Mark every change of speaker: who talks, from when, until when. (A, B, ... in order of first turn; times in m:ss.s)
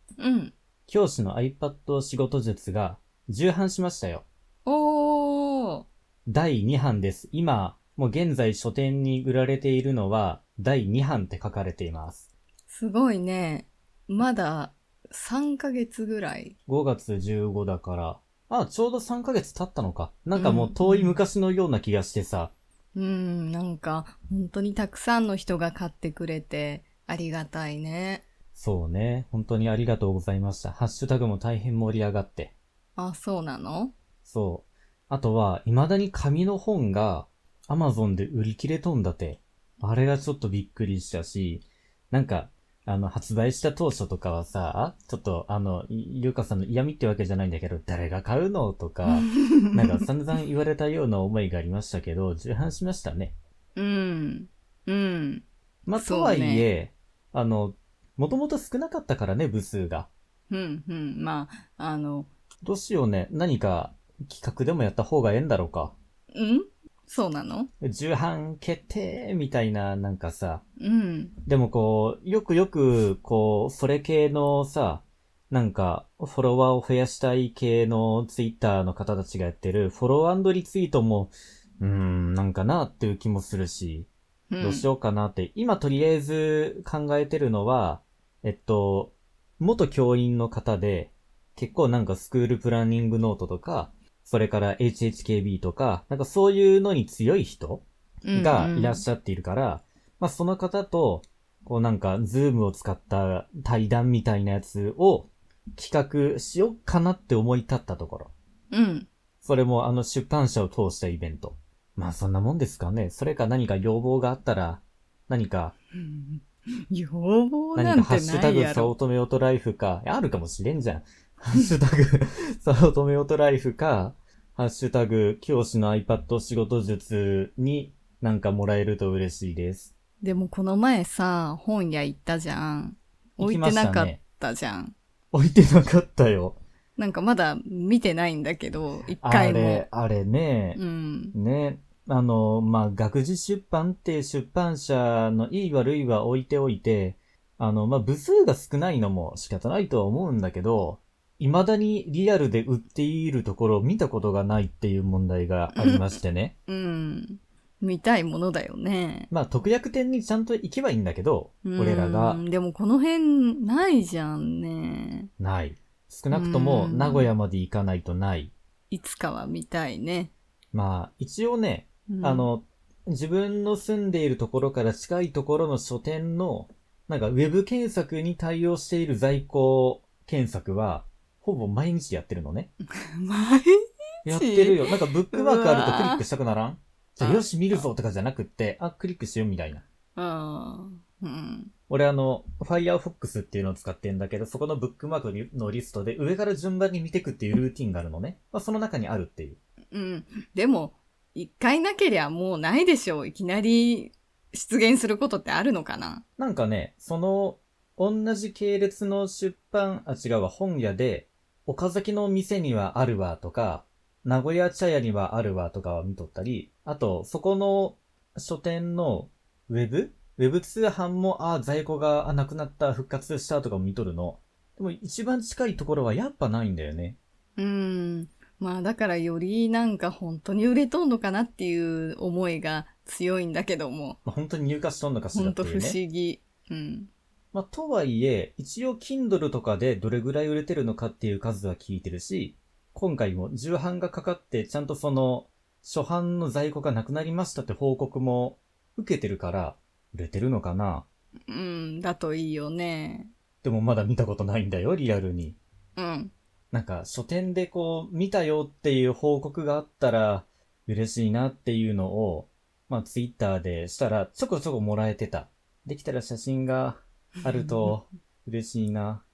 0:00.2-0:00.5 A
0:00.9-0:04.3 B
0:04.7-0:05.9 A
0:06.3-0:12.3 B
0:12.7-0:16.6 A
0:16.7-0:22.5 B
0:20.4-0:21.2 A
0:23.0-0:28.3 A
0:28.6-0:32.6 B
0:33.0-0:33.9 A
0:34.2-0:53.4 B
0:49.1-0:50.0 A
0:53.8-0:56.7 A
0:55.9-1:00.1 B
1:00.5-1:02.3 A
1:02.6-1:06.0 B
1:06.3-1:07.7 A
1:07.8-1:10.6 B
1:10.8-1:11.3 A
1:11.5-1:48.3 B
1:24.5-1:24.9 A
1:38.2-1:39.1 A
1:48.7-1:49.1 A
1:49.4-1:55.8 B
1:56.0-1:59.0 A
1:57.8-2:09.9 B
2:10.2-2:15.0 A
2:13.4-2:14.2 B
2:15.3-2:16.6 B
2:17.0-2:19.9 A
2:19.2-2:20.8 B
2:20.8-2:21.4 A
2:21.4-2:36.6 B
2:35.7-2:39.3 A
2:39.3-2:42.4 B
2:41.6-2:45.3 A
2:45.4-2:48.5 B
2:46.3-2:47.3 A
2:48.9-2:50.3 A
2:50.7-3:02.7 B
2:52.1-2:52.5 A
3:03.0-3:03.7 A
3:04.2-3:09.8 B
3:04.3-3:06.2 A
3:07.2-3:07.9 A
3:10.2-3:11.7 A
3:11.9-3:19.6 B
3:19.9-3:26.2 A
3:26.4-3:47.2 B
3:47.6-3:54.2 A
3:54.2-3:56.0 B
3:55.3-3:57.1 A
3:57.5-4:11.1 B
4:11.5-4:13.3 A
4:13.6-4:15.6 B
4:16.0-4:16.3 A
4:16.7-4:29.2 B
4:27.5-4:27.9 A